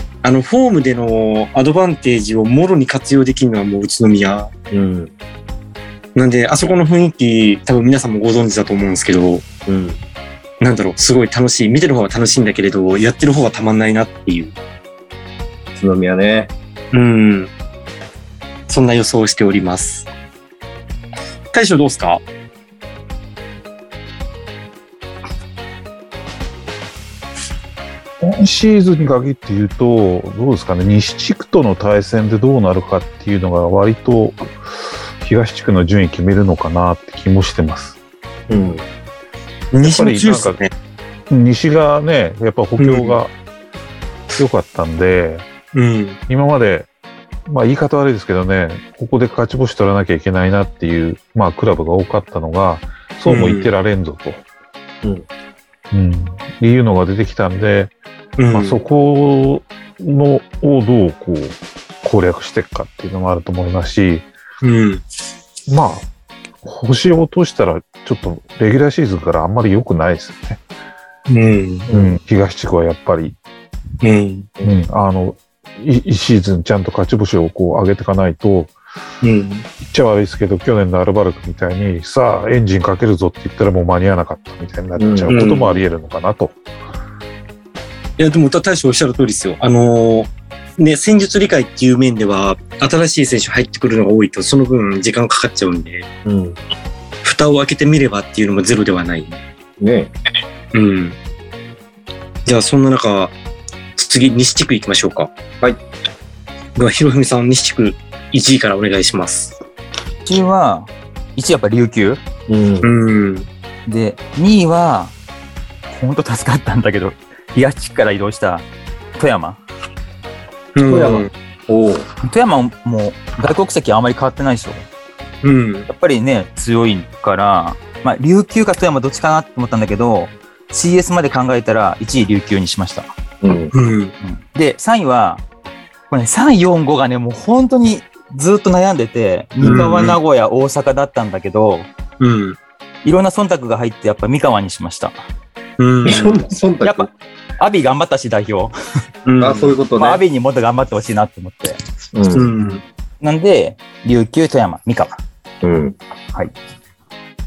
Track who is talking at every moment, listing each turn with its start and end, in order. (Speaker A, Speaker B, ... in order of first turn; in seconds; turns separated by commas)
Speaker A: 0.2-4.5, Speaker B: 4.7-5.1, Speaker A: 6.2-9.5, Speaker B: 9.7-10.0, Speaker A: 10.6-14.5, Speaker B: 15.8-16.5, Speaker A: 16.9-17.5, Speaker A: 18.7-20.1, Speaker A: 21.5-22.2, Speaker C: 28.2-34.5, Speaker C: 35.2-38.0, Speaker B: 38.5-38.9, Speaker A: 39.7-40.7, Speaker C: 39.8-40.6, Speaker C: 41.3-43.3, Speaker A: 42.8-43.2, Speaker C: 44.3-45.5, Speaker A: 45.7-46.2, Speaker C: 46.3-46.9, Speaker C: 47.5-54.4, Speaker A: 53.3-53.7, Speaker C: 55.9-58.0, Speaker A: 58.4-58.8, Speaker C: 58.5-64.3, Speaker A: 64.6-65.0, Speaker C: 65.7-66.1, Speaker C: 66.6-70.6, Speaker A: 71.3-71.9, Speaker B: 71.9-72.2, Speaker C: 71.9-73.4, Speaker A: 74.0-74.5, Speaker C: 74.6-78.8, Speaker A: 79.2-79.7, Speaker C: 79.8-86.6, Speaker B: 85.0-85.8, Speaker A: 85.3-85.8, Speaker A: 88.2-96.1, Speaker B: 96.2-96.6, Speaker A: 97.2-99.4, Speaker B: 99.8-100.1, Speaker A: 100.7-101.2, Speaker A: 102.5-103.3, Speaker A: 104.0-105.3, Speaker A: 106.8-109.6, Speaker D: 110.2-112.2, Speaker B: 112.5-112.9, Speaker A: 112.8-113.5, Speaker D: 113.9-115.2, Speaker D: 115.9-118.7, Speaker D: 119.2-119.6, Speaker A: 120.8-121.3, Speaker B: 120.8-122.1, Speaker D: 122.2-124.9, Speaker A: 125.4-125.9, Speaker D: 125.9-133.1, Speaker B: 133.4-133.7, Speaker A: 133.7-134.1, Speaker D: 134.2-135.4, Speaker D: 136.1-141.9, Speaker B: 139.6-139.9, Speaker A: 139.6-140.2, Speaker A: 142.2-142.6, Speaker D: 143.1-145.2, Speaker A: 145.8-146.4, Speaker B: 146.1-147.1, Speaker D: 146.8-148.7, Speaker A: 149.2-149.8, Speaker B: 149.4-150.2, Speaker D: 150.0-151.8, Speaker B: 152.1-152.5, Speaker A: 152.3-152.8, Speaker D: 153.2-155.2, Speaker B: 155.6-156.0